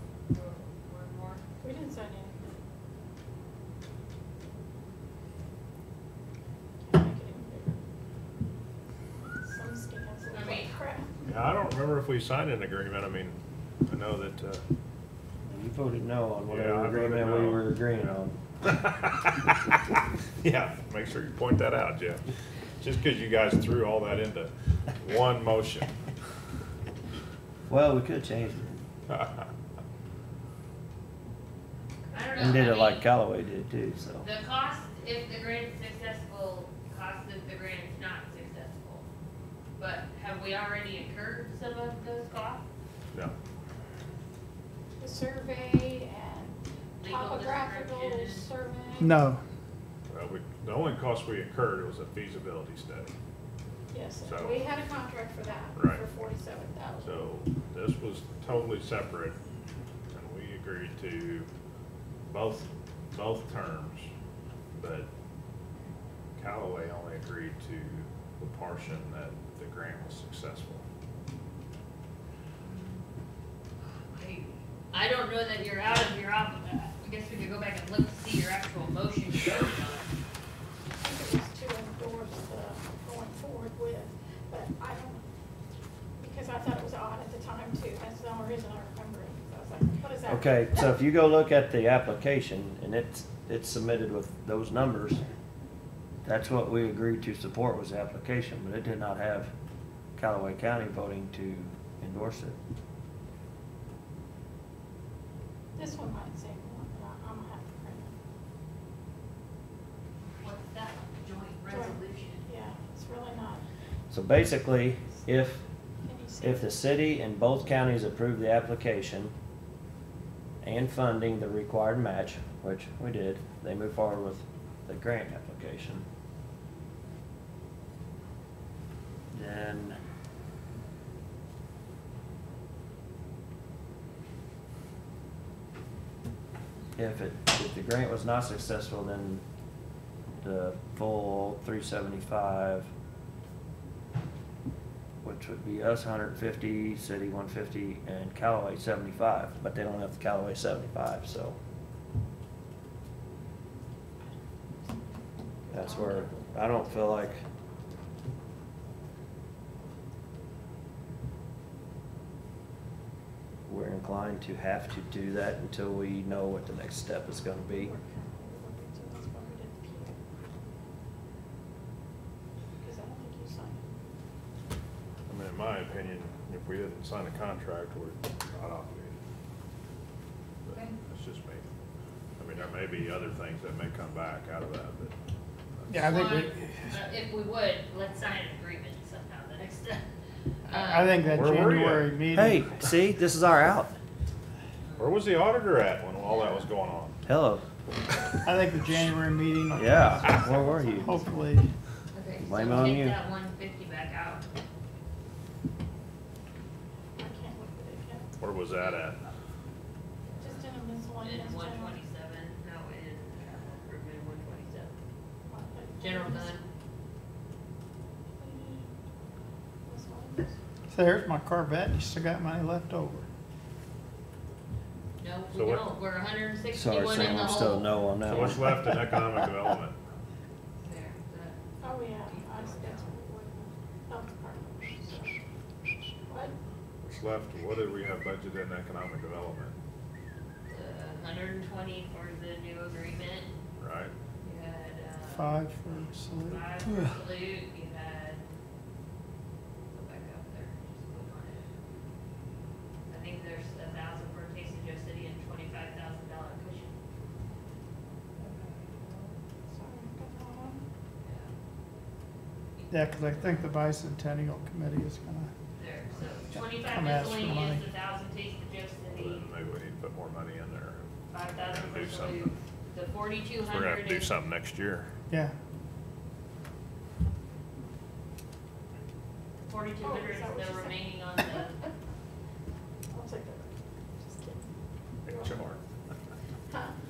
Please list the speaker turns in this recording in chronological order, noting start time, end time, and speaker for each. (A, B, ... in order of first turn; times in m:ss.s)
0:00.3-0:01.4 A
0:01.6-0:02.5 B
0:06.8-0:07.8 B
0:09.4-0:11.3 B
0:10.3-0:10.7 A
0:11.2-0:14.6 C
0:15.5-0:18.4 D
0:16.5-0:17.6 C
0:18.6-0:19.7 C
0:20.4-0:22.2 C
0:22.8-0:25.9 C
0:27.7-0:28.8 D
0:32.1-0:33.0 A
0:32.4-0:34.2 D
0:34.2-0:39.0 A
0:39.8-0:42.6 A
0:45.0-0:49.2 B
0:47.0-0:48.5 A
0:49.0-0:49.4 E
0:50.1-0:53.1 C
0:53.9-0:57.3 B
0:54.2-0:54.7 C
0:55.8-0:56.0 C
0:57.0-0:59.4 C
1:00.1-1:01.5 C
1:02.3-1:04.1 C
1:04.7-1:05.1 C
1:06.4-1:10.8 C
1:12.6-1:13.0 A
1:14.1-1:20.1 A
1:21.0-1:25.2 B
1:26.2-1:30.8 B
1:30.3-1:35.2 D
1:36.2-1:39.5 D
1:40.2-1:42.6 D
1:45.7-1:48.1 B
1:50.4-1:52.4 A
1:51.7-1:53.6 B
1:54.1-1:55.6 D
1:56.0-1:56.7 B
1:56.4-1:59.3 D
2:00.6-2:06.0 D
2:09.3-2:10.0 D
2:17.0-2:19.4 D
2:20.4-2:22.9 D
2:25.2-2:31.6 D
2:34.2-2:37.5 B
2:35.7-2:37.4 D
2:43.7-2:47.9 D
2:47.7-2:50.2 B
2:52.8-2:53.8 B
2:55.3-2:59.2 C
3:00.7-3:01.6 C
3:00.7-3:01.0 A
3:02.4-3:05.1 C
3:05.9-3:06.9 E
3:05.9-3:10.0 A
3:10.6-3:11.3 A
3:10.7-3:12.6 E
3:11.3-3:12.2 C
3:12.3-3:13.9 D
3:14.8-3:15.2 A
3:15.0-3:17.2 C
3:16.2-3:16.7 A
3:17.2-3:17.6 D
3:18.4-3:21.7 E
3:19.7-3:21.2 D
3:20.3-3:21.2 B
3:22.1-3:24.4 A
3:22.4-3:23.2 D
3:27.2-3:28.3 B
3:28.4-3:29.2 C
3:28.8-3:29.2 A
3:30.2-3:34.9 A
3:30.4-3:32.0 B
3:35.5-3:36.6 B
3:36.0-3:36.6 A
3:38.4-3:38.9 B
3:39.8-3:40.5 B
3:40.9-3:43.3 E
3:45.2-3:47.9 A
3:45.5-3:45.9 C
3:46.7-3:49.4 D
3:48.2-3:50.0 C
3:50.8-3:53.1 A
3:51.8-3:55.4 B
3:56.3-3:56.5 B
3:57.0-3:59.8 C
4:00.7-4:03.5 A
4:03.8-4:04.1 C
4:04.4-4:05.6 A
4:05.3-4:07.2 E
4:06.4-4:08.4 A
4:09.9-4:11.7 A
4:13.1-4:16.9 A
4:18.4-4:19.3 A
4:19.7-4:20.8 B
4:21.2-4:21.5 A
4:22.8-4:23.6 A
4:22.9-4:25.5 E
4:25.8-4:29.4 A
4:26.8-4:27.8 E
4:29.1-4:31.1 C
4:31.3-4:34.3 A
4:31.6-4:32.5 C
4:33.6-4:35.1 C
4:39.6-4:41.8 A
4:40.0-4:41.1 B
4:43.1-4:44.7 B
4:45.2-4:45.8 C
4:45.3-4:45.6 B
4:46.7-4:46.9 B